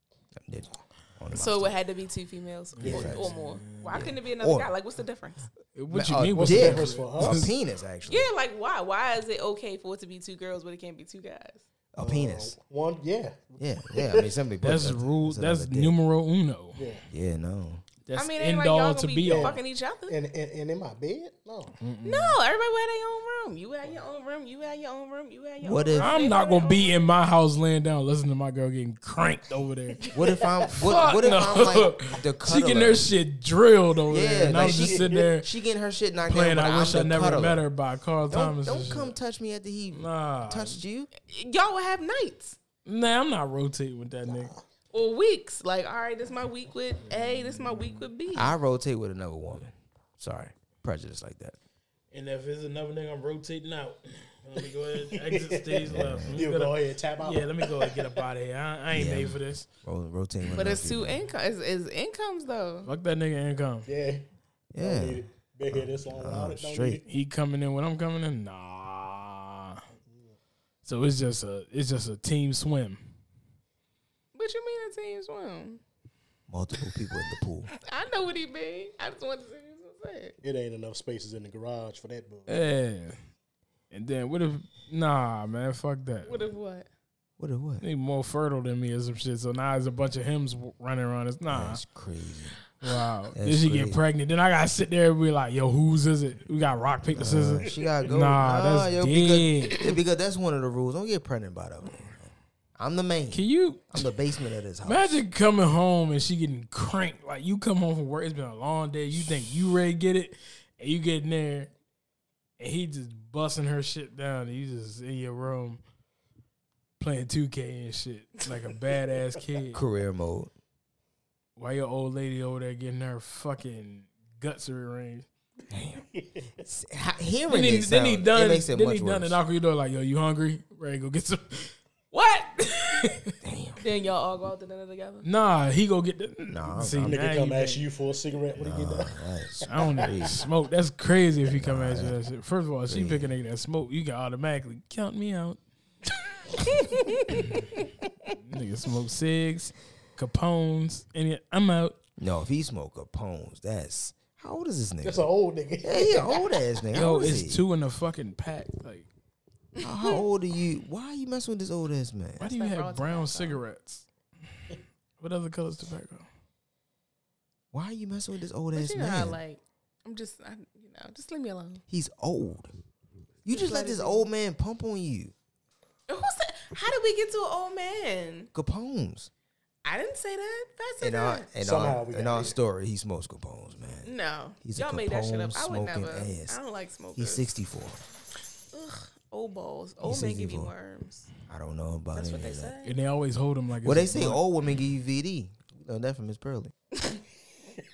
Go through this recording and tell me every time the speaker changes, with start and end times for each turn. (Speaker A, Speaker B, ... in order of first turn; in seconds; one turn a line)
Speaker A: 0.4-1.8
Speaker B: 1.3-5.5
Speaker C: 2.8-4.1
Speaker A: 2.8-3.3
Speaker A: 3.9-4.7
Speaker C: 5.8-7.5
Speaker A: 5.9-8.3
Speaker D: 6.4-7.4
Speaker B: 8.1-11.7
Speaker A: 11.9-12.6
Speaker D: 12.0-14.3
Speaker A: 13.6-16.0
Speaker C: 14.6-16.9
Speaker D: 16.8-17.1
Speaker A: 17.1-17.8
Speaker C: 18.1-19.6
Speaker B: 18.1-20.2
Speaker D: 19.2-21.8
Speaker C: 21.8-22.4
Speaker B: 22.0-27.1
Speaker A: 25.6-26.2
Speaker C: 26.0-30.1
Speaker A: 30.1-33.1
Speaker C: 30.7-35.5
Speaker A: 34.1-37.7
Speaker D: 34.5-35.3
Speaker C: 36.3-39.1
Speaker A: 38.3-41.1
Speaker C: 39.9-40.8
Speaker B: 41.2-42.6
Speaker C: 42.9-44.5
Speaker D: 44.2-44.6
Speaker B: 44.9-48.5
Speaker C: 47.1-48.1
Speaker A: 48.3-51.6
Speaker C: 52.1-59.7
Speaker D: 54.6-58.2
Speaker A: 55.9-56.5
Speaker A: 58.9-61.2
Speaker B: 60.5-62.9
Speaker C: 62.9-63.9
Speaker D: 63.9-64.3
Speaker A: 64.7-67.0
Speaker D: 64.8-67.0
Speaker C: 67.1-69.8
Speaker D: 70.1-70.4
Speaker C: 70.8-73.1
Speaker B: 74.3-75.8
Speaker A: 76.5-77.7
Speaker B: 77.8-80.4
Speaker D: 80.4-82.6
Speaker C: 82.5-83.2
Speaker C: 83.9-86.5
Speaker B: 86.2-86.9
Speaker A: 87.4-87.8
Speaker C: 87.8-91.8
Speaker A: 91.5-92.6
Speaker C: 92.8-99.9
Speaker A: 93.3-94.0
Speaker A: 97.1-105.2
Speaker C: 103.3-104.1
Speaker C: 104.8-111.7
Speaker C: 112.6-115.8
Speaker C: 117.0-119.8
Speaker A: 119.7-120.5
Speaker C: 121.6-125.3
Speaker A: 125.7-126.1
Speaker D: 126.2-126.4
Speaker A: 126.6-129.4
Speaker C: 127.5-131.8
Speaker B: 132.1-133.0
Speaker A: 133.4-133.8
Speaker B: 133.8-135.2
Speaker C: 135.2-137.8
Speaker A: 136.5-137.2
Speaker D: 137.0-139.2
Speaker A: 138.6-140.4
Speaker C: 139.7-145.6
Speaker D: 139.8-140.1
Speaker A: 141.4-142.2
Speaker A: 142.9-143.3
Speaker B: 146.6-147.9
Speaker C: 148.4-152.0
Speaker A: 152.2-155.2
Speaker D: 155.0-156.6
Speaker A: 155.8-157.6
Speaker C: 156.9-159.1
Speaker B: 159.8-160.3
Speaker A: 159.8-162.4
Speaker B: 162.4-163.6
Speaker C: 162.4-164.1
Speaker C: 165.2-166.3
Speaker A: 167.7-169.4
Speaker B: 168.7-171.8
Speaker A: 171.9-172.8
Speaker B: 173.4-174.3
Speaker A: 173.4-175.3
Speaker B: 176.1-178.5
Speaker A: 178.5-179.3
Speaker B: 179.8-181.5
Speaker A: 181.0-184.1
Speaker D: 181.6-182.6
Speaker B: 184.0-187.5
Speaker A: 184.6-186.6
Speaker A: 187.2-188.0
Speaker B: 188.7-191.3
Speaker A: 190.0-190.7
Speaker A: 191.5-192.8
Speaker B: 192.2-192.9
Speaker C: 192.8-194.4
Speaker A: 193.8-196.7